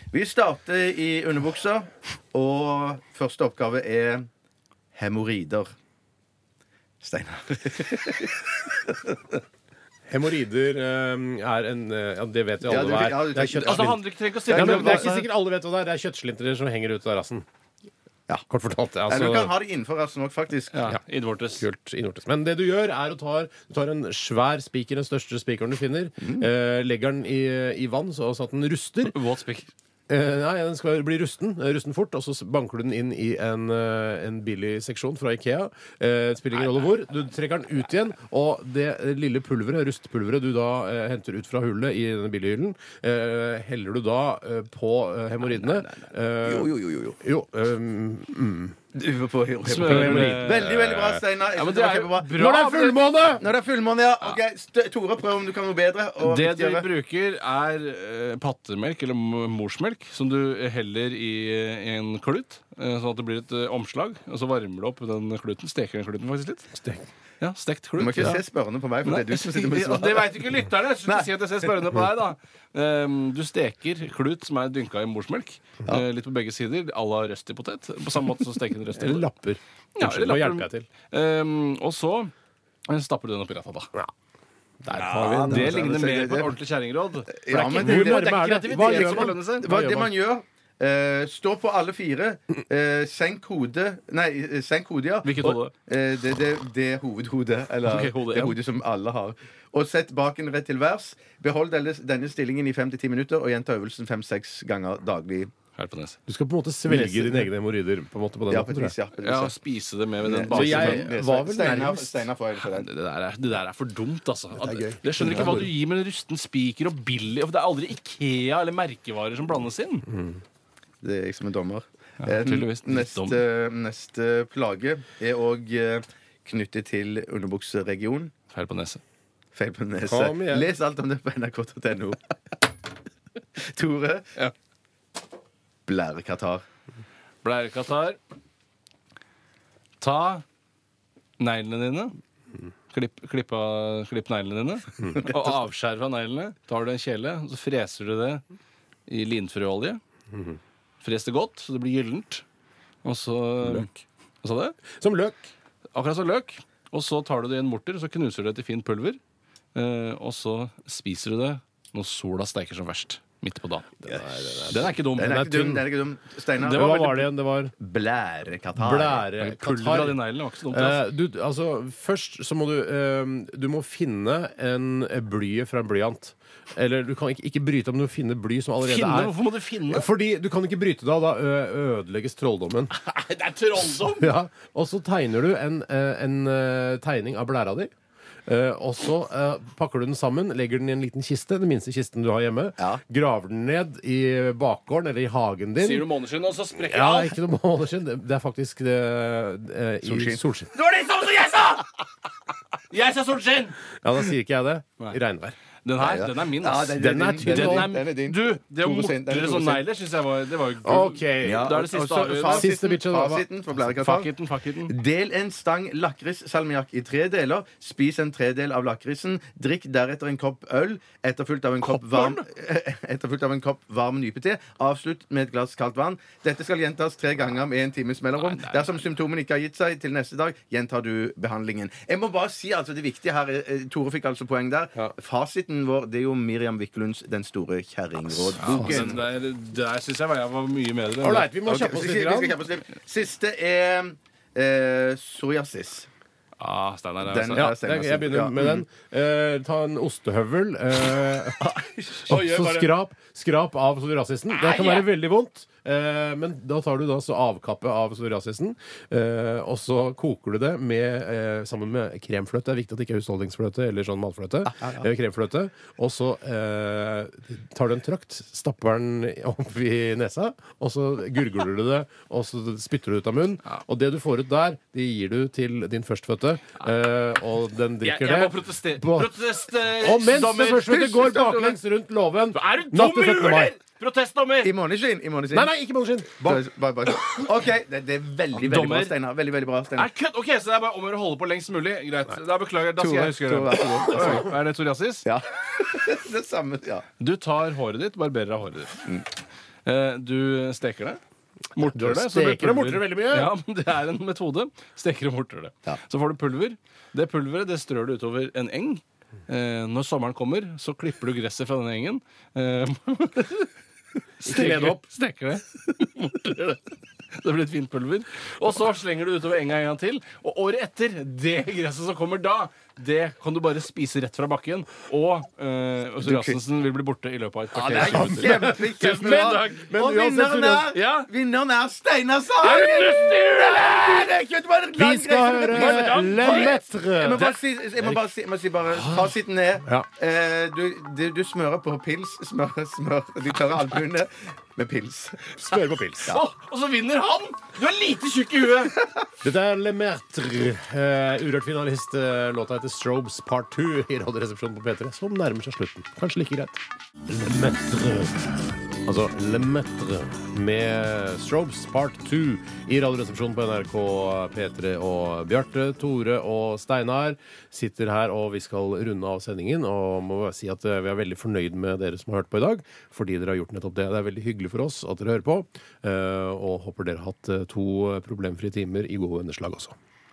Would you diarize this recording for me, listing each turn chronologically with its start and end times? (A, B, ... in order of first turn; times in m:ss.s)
0:00.1-0:04.3 A
0:04.9-0:05.7 A
0:07.0-0:09.4 A
0:10.1-0:17.4 B
0:12.6-0:15.1 A
0:13.6-0:15.3 C
0:18.5-0:19.5 B
0:19.1-0:20.8 A
0:20.7-0:21.6 C
0:21.6-0:29.2 B
0:26.2-0:26.5 A
0:29.1-0:29.7 C
0:30.1-0:48.8 B
0:46.4-0:47.2 A
0:48.9-0:52.4 A
0:49.6-0:53.1 C
0:49.8-0:50.6 B
0:52.3-0:53.4 B
0:53.4-0:56.9 A
0:56.2-1:06.7 C
1:06.8-1:07.1 B
1:07.4-1:08.4 C
1:08.0-1:10.5 A
1:09.0-1:19.2 C
1:11.0-1:11.7 A
1:18.9-1:20.9 B
1:20.0-1:22.3 C
1:22.9-1:23.9 C
1:24.8-1:25.9 B
1:24.9-1:26.5 A
1:24.9-1:29.8 C
1:27.4-1:45.5 A
1:27.5-1:30.1 B
1:35.2-1:35.7 C
1:37.8-1:38.6 C
1:45.8-1:46.2 C
1:46.3-1:48.9 B
1:46.9-1:47.5 A
1:48.5-1:49.5 A
1:49.2-1:51.1 C
1:50.2-1:52.9 A
1:50.5-1:52.3 B
1:52.6-2:00.0 C
1:54.6-1:55.7 A
1:55.2-1:55.7 B
2:00.1-2:00.4 B
2:01.0-2:08.3 A
2:02.2-2:03.4 C
2:08.5-2:09.0 C
2:09.5-2:12.6 A
2:10.1-2:10.7 B
2:13.6-2:14.3 A
2:15.9-2:16.6 A
2:17.4-2:18.2 C
2:20.0-2:20.4 C
2:21.4-2:22.1 C
2:22.9-2:28.4 C
2:29.1-2:30.0 C
2:30.3-2:30.6 B
2:31.0-2:32.4 C
2:33.0-2:34.8 C
2:34.9-2:35.4 B
2:35.9-2:39.2 C
2:39.7-2:44.1 C
2:44.0-2:45.8 B
2:44.6-2:45.4 C
2:45.1-2:49.3 A
2:46.6-2:47.7 B
2:46.6-2:47.2 C
2:48.8-3:02.9 B
2:49.4-2:51.0 C
2:58.8-3:00.1 C
3:02.9-3:04.3 C
3:04.1-3:07.9 B
3:08.5-3:16.1 B
3:15.8-3:17.4 C
3:16.8-3:20.7 B
3:20.0-3:20.4 A
3:20.7-3:21.9 C
3:22.9-3:23.8 C
3:24.0-3:25.5 B
3:25.8-3:32.7 C
3:26.0-3:29.8 A
3:27.0-3:27.9 B
3:30.8-3:33.4 B
3:31.4-3:34.3 A
3:33.9-3:34.9 C
3:34.8-3:59.2 A
3:41.8-3:42.4 C
3:48.3-3:49.0 C
3:58.6-3:59.0 B
3:58.6-4:01.5 C
4:01.2-4:02.6 B
4:01.6-4:06.1 A
4:06.6-4:07.7 C
4:07.2-4:08.8 A
4:07.5-4:11.7 B
4:11.6-4:12.3 A
4:12.3-4:39.3 B
4:12.3-4:12.9 C
4:14.6-4:15.1 A
4:24.8-4:25.0 A
4:38.0-4:41.5 C
4:39.8-4:43.8 B
4:40.9-4:41.8 A
4:42.5-4:44.7 C
4:44.6-4:45.7 A
4:45.5-4:46.6 B
4:46.4-4:50.1 A
4:48.5-4:49.2 C
4:50.0-4:55.2 C
4:53.0-4:54.5 A
4:55.2-4:57.0 A
4:57.2-4:59.1 C
4:59.8-5:01.2 C
5:01.7-5:13.7 C
5:01.8-5:03.5 B
5:14.4-5:16.8 C
5:14.5-5:15.0 B
5:17.3-5:29.8 C
5:26.2-5:26.6 A
5:27.7-5:45.5 A
5:27.9-5:30.9 B
5:30.9-5:31.3 C
5:32.6-5:34.3 C
5:35.0-5:37.5 B
5:35.7-5:36.8 C
5:39.0-5:39.3 B
5:45.6-5:46.3 B
5:45.7-5:49.0 C
5:49.4-6:19.9 B